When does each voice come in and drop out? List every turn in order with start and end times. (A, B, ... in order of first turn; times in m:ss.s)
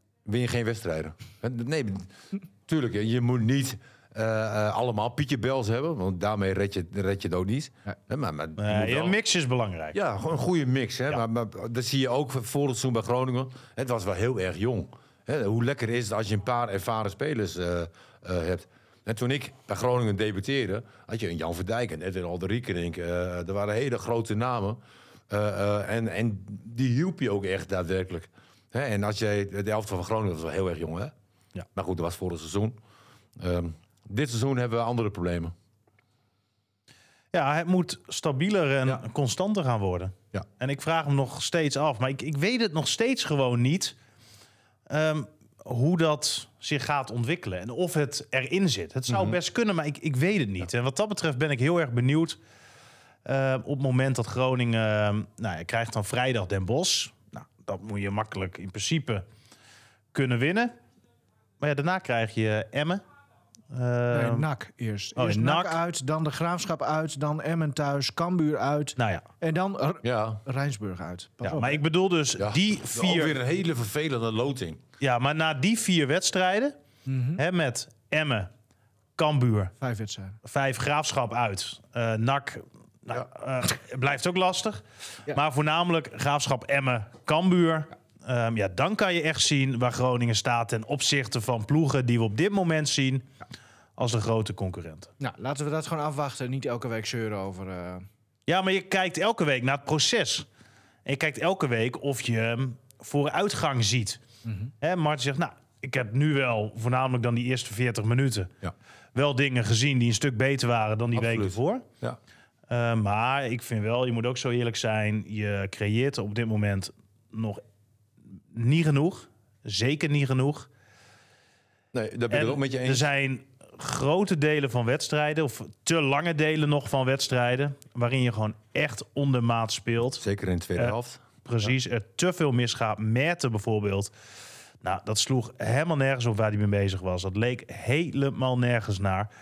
0:00.2-0:02.1 A
0:02.7-0:09.2 A
0:08.6-0:10.0 B
0:09.9-0:31.1 A
0:31.7-0:32.8 A
0:33.4-0:35.5 A
0:37.3-0:44.0 B
0:44.9-0:52.4 B
0:49.1-0:49.4 A
0:53.3-0:59.2 B
1:00.1-1:00.7 B
1:01.6-1:03.0 B
1:03.7-1:04.5 B
1:04.1-1:11.8 C
1:05.2-1:05.8 B
1:09.0-1:09.2 B
1:10.0-1:10.4 A
1:11.4-1:13.4 B
1:12.4-1:14.8 A
1:15.0-1:16.8 B
1:17.1-1:17.4 C
1:17.4-1:18.5 B
1:19.2-1:19.7 B
1:19.8-1:20.4 C
1:20.4-1:33.3 B
1:34.0-1:35.1 B
1:35.2-1:38.1 C
1:38.5-1:40.5 B
1:41.0-1:44.2 B
1:44.4-1:44.7 C
1:44.8-1:48.5 B
1:49.2-1:51.8 B
1:51.2-1:52.2 A
1:52.7-1:57.6 B
1:58.5-2:00.7 B
2:01.9-2:03.1 A
2:02.3-2:10.2 B
2:10.2-2:11.2 A
2:11.5-2:14.1 B
2:14.8-2:19.3 B